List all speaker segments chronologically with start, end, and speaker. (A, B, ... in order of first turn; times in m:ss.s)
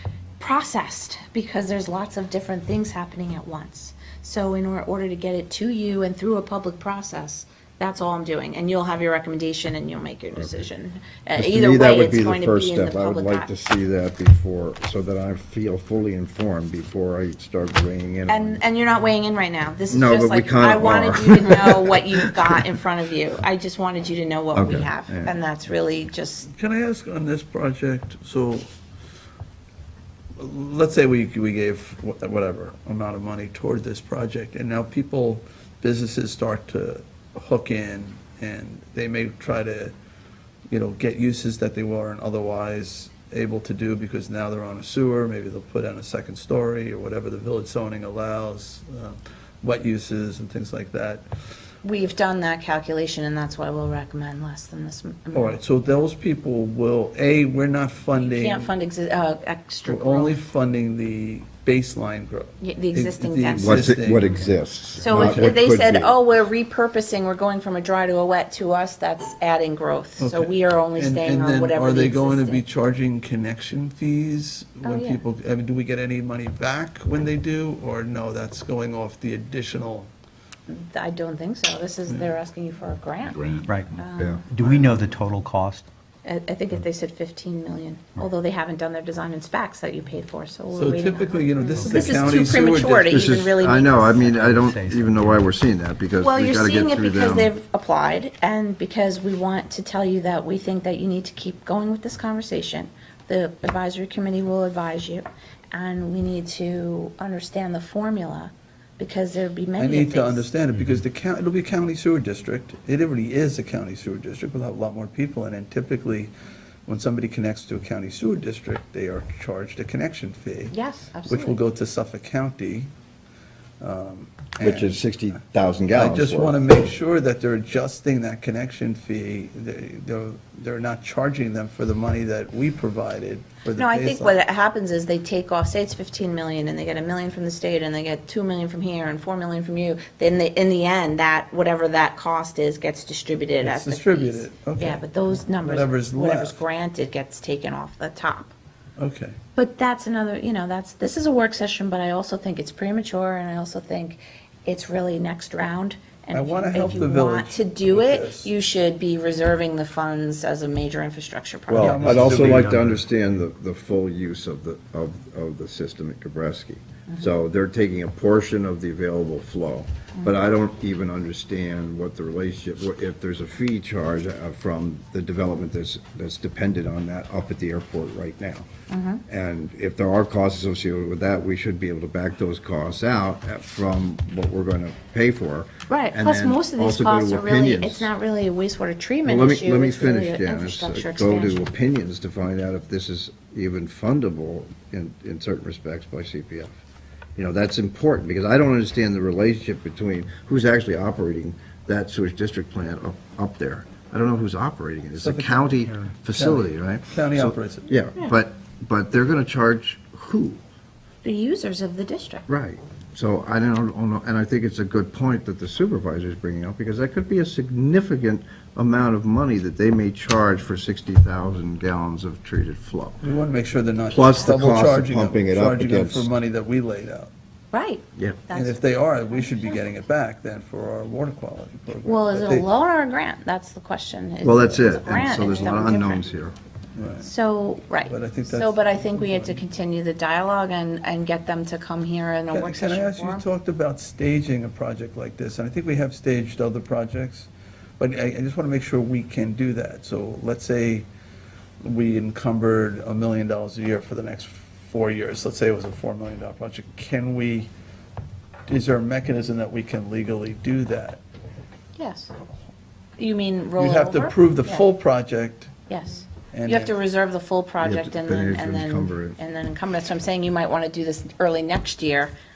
0:00.4-0:13.5 A
0:11.4-0:18.6 B
0:18.3-0:26.5 A
0:19.9-0:22.6 B
0:24.5-0:25.3 B
0:26.5-0:28.7 C
0:30.4-0:39.9 C
0:40.7-0:51.2 C
0:51.8-0:55.6 A
0:55.3-0:58.7 C
0:58.1-1:00.4 A
0:59.9-1:04.4 C
1:02.6-1:04.0 A
1:03.6-1:06.2 B
1:05.0-1:12.6 A
1:05.1-1:05.6 C
1:10.2-1:20.1 C
1:14.8-1:15.2 A
1:20.7-1:24.9 A
1:23.6-1:25.8 D
1:24.2-1:24.4 B
1:26.2-1:34.0 A
1:30.7-1:33.3 C
1:31.8-1:32.4 D
1:33.1-1:37.5 B
1:33.7-1:35.5 D
1:36.2-1:50.4 A
1:49.8-1:56.3 C
1:56.8-2:00.7 C
2:00.7-2:01.6 A
2:01.2-2:02.9 C
2:03.8-2:05.0 C
2:04.6-2:06.6 B
2:05.9-2:14.4 C
2:13.8-2:28.5 A
2:23.6-2:25.0 C
2:25.6-2:26.6 C
2:29.0-2:29.4 C
2:29.6-2:42.1 A
2:36.3-2:38.5 C
2:41.7-2:58.6 B
2:41.7-2:42.9 C
2:41.8-2:43.0 D
2:58.9-2:59.2 A
2:59.3-3:08.1 B
3:05.9-3:11.7 A
3:09.2-3:16.7 B
3:17.4-3:30.6 B
3:25.2-3:27.9 C
3:31.2-3:32.4 A
3:32.5-3:43.2 B
3:43.2-3:47.3 C
3:44.1-3:46.3 B
3:47.7-3:49.8 A
3:48.2-3:48.4 B
3:48.5-3:52.7 C
3:52.0-3:56.2 A
3:54.4-3:56.5 B
3:57.0-3:57.3 C
3:57.2-4:03.4 A
3:58.1-3:59.6 C
4:02.5-4:11.0 C
4:11.8-4:17.7 C
4:18.7-4:21.2 C
4:22.0-4:22.3 A
4:23.2-4:24.8 A
4:23.8-4:25.7 C
4:25.9-4:32.3 A
4:26.5-4:26.9 C
4:27.8-4:29.4 B